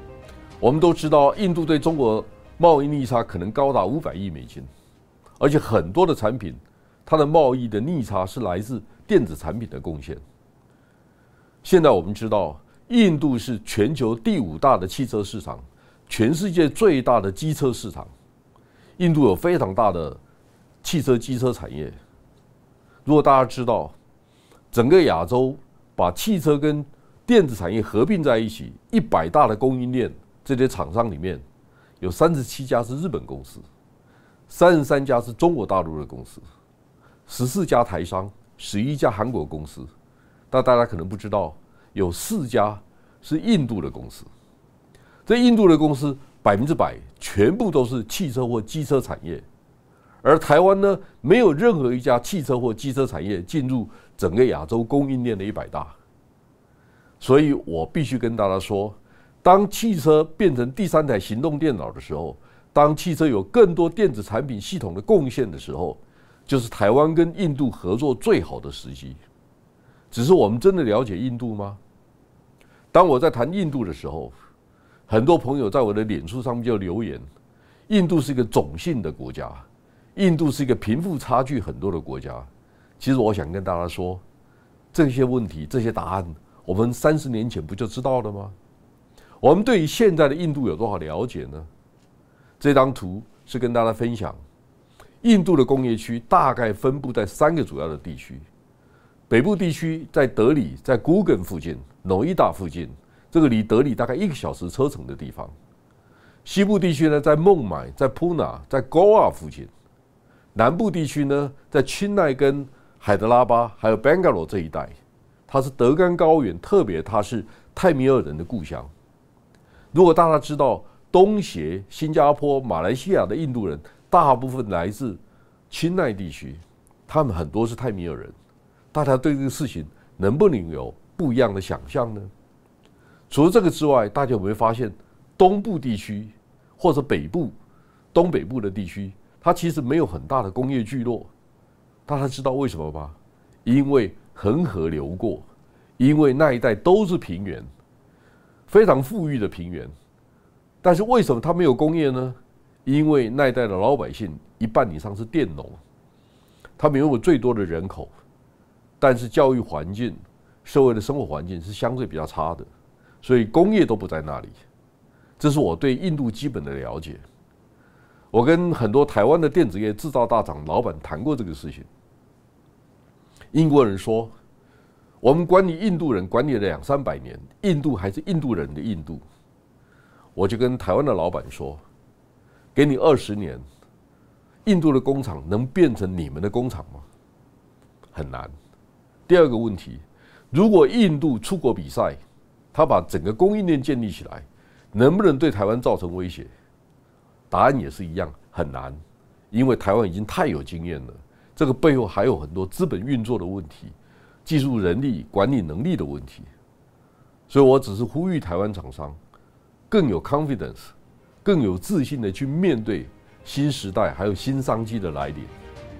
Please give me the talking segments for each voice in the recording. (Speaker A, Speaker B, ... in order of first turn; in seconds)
Speaker A: 0.6-4.7, 5.4-10.2, 11.6-18.1, 19.0-20.2, 20.8-22.0, 23.0-24.0, 24.7-31.4, 32.0-33.6, 34.5-36.4, 37.2-39.9, 40.5-44.3, 45.2-49.5, 50.2-56.0, 57.2-69.2, 70.1-71.8, 72.9-74.3, 75.1-77.2, 77.9-82.5, 83.0-84.2, 84.9-88.5, 89.4-91.7, 92.6-94.4, 95.2-98.5, 99.3-105.5, 106.4-109.7, 110.5-115.0, 115.5-118.9, 119.9-128.3, 128.9-132.3, 133.3-137.6, 138.1-141.3, 142.1-145.5, 146.0-147.7, 148.7-149.9, 150.8-155.8, 156.8-158.1, 159.0-162.7, 163.2-164.6, 165.4-167.2, 168.3-171.9, 173.5-174.3, 175.2-179.2, 180.4-181.8, 182.8-183.6, 184.7-187.1, 188.1-188.5, 189.3-192.2, 192.7-196.5, 197.5-199.0, 199.5-206.5, 207.5-209.2, 209.9-215.5